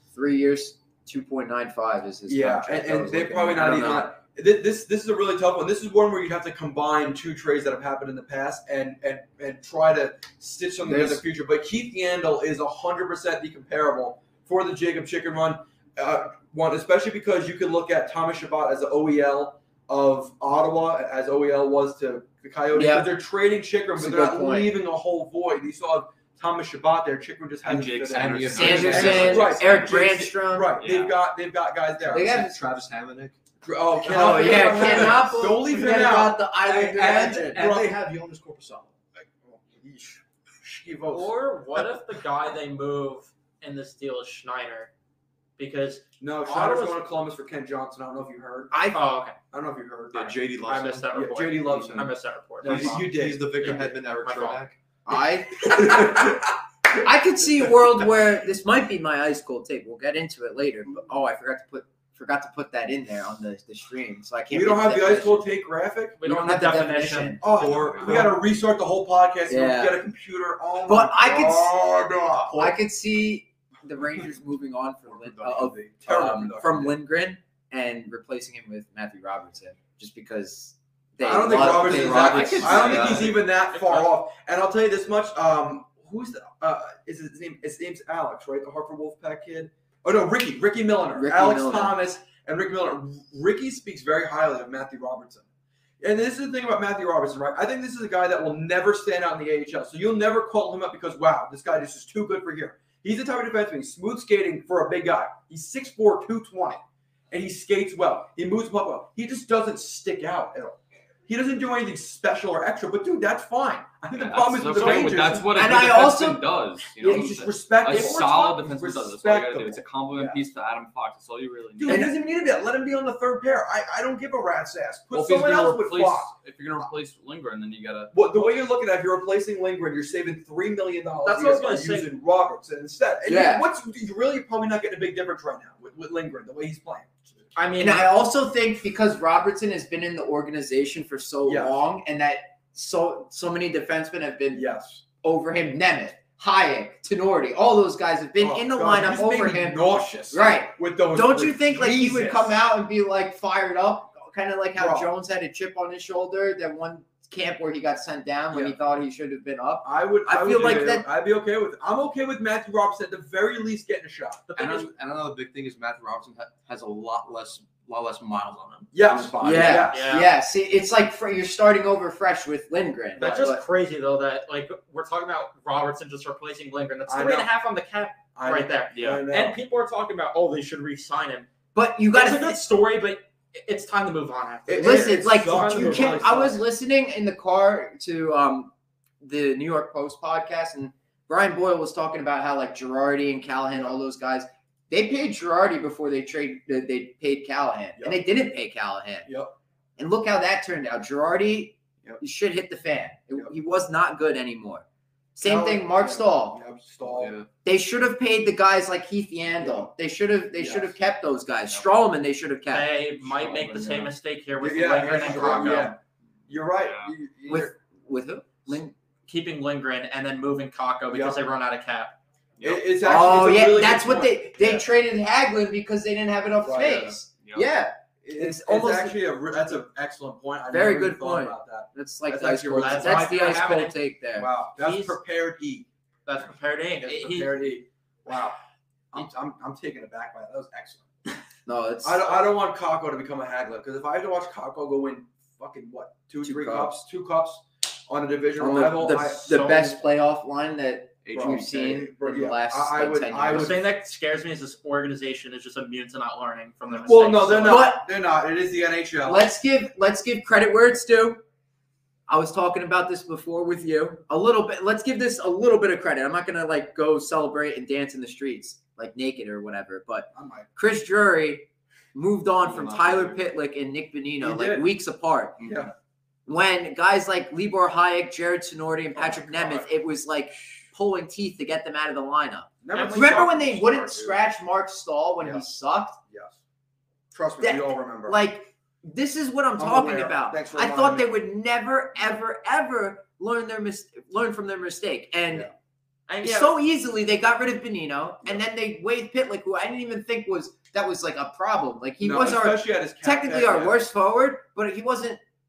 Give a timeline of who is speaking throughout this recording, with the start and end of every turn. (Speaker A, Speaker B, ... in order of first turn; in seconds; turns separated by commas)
Speaker A: 0.1-4.1, Speaker B: 2.3-32.4, Speaker A: 10.8-11.2, Speaker A: 22.7-23.1, Speaker A: 24.0-24.8, Speaker C: 27.6-29.7, Speaker D: 28.1-29.7, Speaker A: 28.6-30.8, Speaker C: 30.8-31.2, Speaker D: 32.0-33.4, Speaker A: 32.1-32.6, Speaker B: 33.6-38.0, Speaker A: 34.0-37.8, Speaker D: 34.4-35.2, Speaker D: 36.6-38.9, Speaker B: 39.2-41.4, Speaker E: 41.1-44.9, Speaker E: 45.6-47.0, Speaker B: 46.2-48.8, Speaker A: 48.7-49.0, Speaker E: 48.9-49.4, Speaker B: 49.5-50.4, Speaker D: 50.1-51.1, Speaker E: 50.5-54.6, Speaker B: 51.1-53.8, Speaker D: 51.7-52.1, Speaker D: 52.6-54.8, Speaker A: 55.1-56.3, Speaker B: 55.6-56.5, Speaker A: 57.0-65.5, Speaker B: 64.5-66.2, Speaker E: 66.2-67.4, Speaker A: 66.2-67.4, Speaker B: 67.4-72.7, Speaker C: 67.6-68.2, Speaker D: 67.6-68.3, Speaker A: 68.0-68.3, Speaker A: 69.5-70.0, Speaker A: 70.9-71.8, Speaker D: 72.4-72.7, Speaker A: 72.5-83.3, Speaker D: 75.4-75.9, Speaker B: 75.4-77.0, Speaker B: 81.2-95.5, Speaker D: 82.0-83.3, Speaker E: 83.6-84.1, Speaker A: 91.2-92.0, Speaker B: 96.0-115.7, Speaker C: 114.1-122.1, Speaker A: 115.5-116.5, Speaker B: 117.0-120.4, Speaker A: 117.0-117.4, Speaker B: 121.8-126.3, Speaker A: 121.9-122.1, Speaker C: 125.1-128.7, Speaker B: 128.1-137.5, Speaker E: 131.2-132.1, Speaker A: 133.3-133.7, Speaker E: 137.6-138.1, Speaker A: 137.8-144.7, Speaker B: 141.4-141.8, Speaker B: 144.5-145.0, Speaker A: 145.2-161.1, Speaker B: 148.4-152.6, Speaker B: 154.8-155.1, Speaker B: 158.5-158.8, Speaker B: 159.8-164.6, Speaker E: 164.5-164.9, Speaker D: 164.6-169.9, Speaker B: 168.9-170.1, Speaker A: 169.4-173.6, Speaker E: 169.9-170.3, Speaker E: 173.2-181.5, Speaker B: 173.2-173.6, Speaker B: 177.1-177.5, Speaker B: 178.3-179.6, Speaker C: 178.9-179.2, Speaker A: 181.8-182.7, Speaker E: 182.1-186.4, Speaker B: 184.7-186.6, Speaker A: 184.8-199.3, Speaker B: 199.3-199.6, Speaker A: 200.0-204.8, Speaker A: 205.4-206.6, Speaker B: 205.4-207.4, Speaker D: 207.0-207.5, Speaker A: 207.6-213.0, Speaker B: 209.5-209.9, Speaker B: 210.6-210.9, Speaker E: 212.7-216.0, Speaker B: 214.6-217.7, Speaker A: 215.3-215.9, Speaker C: 216.8-217.1, Speaker A: 217.5-218.9, Speaker E: 219.3-222.2, Speaker B: 221.1-221.4, Speaker C: 222.6-222.9, Speaker B: 222.6-224.9, Speaker A: 223.0-229.2, Speaker B: 226.6-227.2, Speaker C: 227.4-227.7, Speaker B: 228.3-233.8, Speaker A: 230.7-234.5, Speaker E: 232.7-234.0, Speaker B: 234.3-235.9, Speaker E: 234.8-235.2, Speaker E: 236.3-237.6, Speaker B: 237.0-238.6, Speaker B: 239.1-241.4, Speaker A: 241.7-242.4, Speaker B: 242.0-250.0, Speaker A: 246.4-246.9, Speaker A: 248.6-253.8, Speaker D: 251.2-251.6, Speaker B: 251.3-253.8, Speaker E: 253.5-257.9, Speaker B: 256.9-259.5, Speaker A: 257.6-258.0, Speaker A: 259.2-261.4, Speaker A: 262.3-275.6, Speaker B: 270.3-270.7, Speaker D: 272.7-273.3, Speaker B: 274.4-274.9, Speaker B: 275.6-275.9, Speaker A: 276.5-286.2, Speaker B: 279.1-279.9, Speaker B: 282.8-284.4, Speaker E: 282.9-283.5, Speaker B: 285.4-285.6, Speaker B: 286.3-286.6, Speaker B: 287.3-288.4, Speaker A: 287.6-295.7, Speaker B: 289.8-291.4, Speaker E: 296.3-296.7, Speaker A: 296.4-305.4, Speaker B: 302.2-304.0